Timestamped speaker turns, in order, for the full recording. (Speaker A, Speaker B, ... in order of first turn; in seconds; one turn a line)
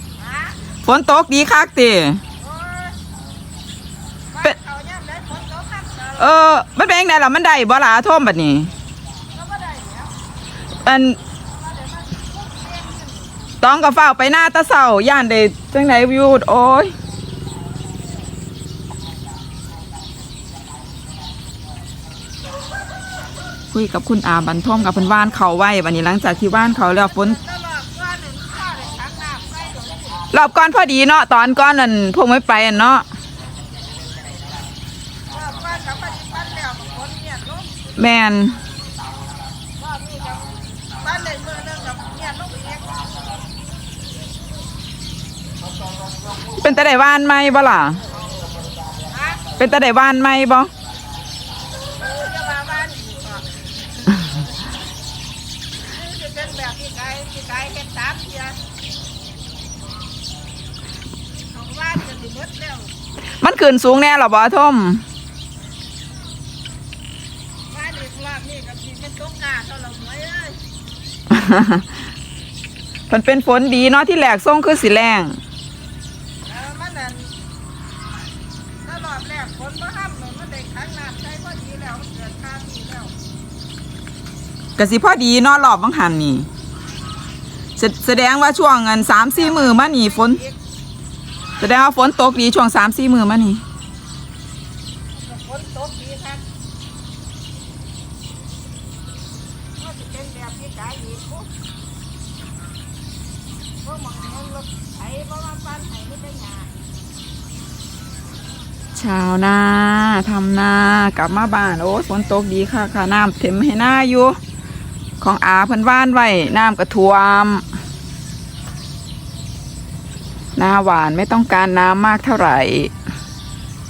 Speaker A: 0.2-0.6
Speaker B: 0.8-2.2
Speaker A: 2.4-3.0
Speaker A: 4.3-6.4
Speaker B: 6.2-8.7
Speaker A: 9.3-10.1
Speaker B: 10.8-11.2
Speaker A: 11.5-13.3
Speaker B: 13.6-16.9
Speaker B: 23.7-27.4
Speaker A: 27.0-30.2
Speaker B: 30.3-33.1
Speaker A: 35.3-37.8
Speaker B: 38.0-38.6
Speaker A: 39.8-43.0
Speaker B: 46.5-48.0
Speaker A: 49.1-49.5
Speaker B: 49.6-50.7
Speaker A: 52.0-53.5
Speaker A: 55.8-58.6
Speaker A: 61.4-62.9
Speaker B: 63.4-65.0
Speaker A: 67.7-70.6
Speaker B: 71.3-71.9
Speaker B: 73.1-75.4
Speaker A: 76.5-77.3
Speaker A: 78.8-83.1
Speaker B: 84.8-86.5
Speaker B: 87.8-90.4
Speaker A: 89.3-90.6
Speaker B: 91.6-93.6
Speaker A: 95.1-96.4
Speaker A: 99.8-101.5
Speaker A: 103.8-106.7
Speaker B: 108.9-114.4
Speaker B: 115.2-117.7
Speaker B: 120.6-122.9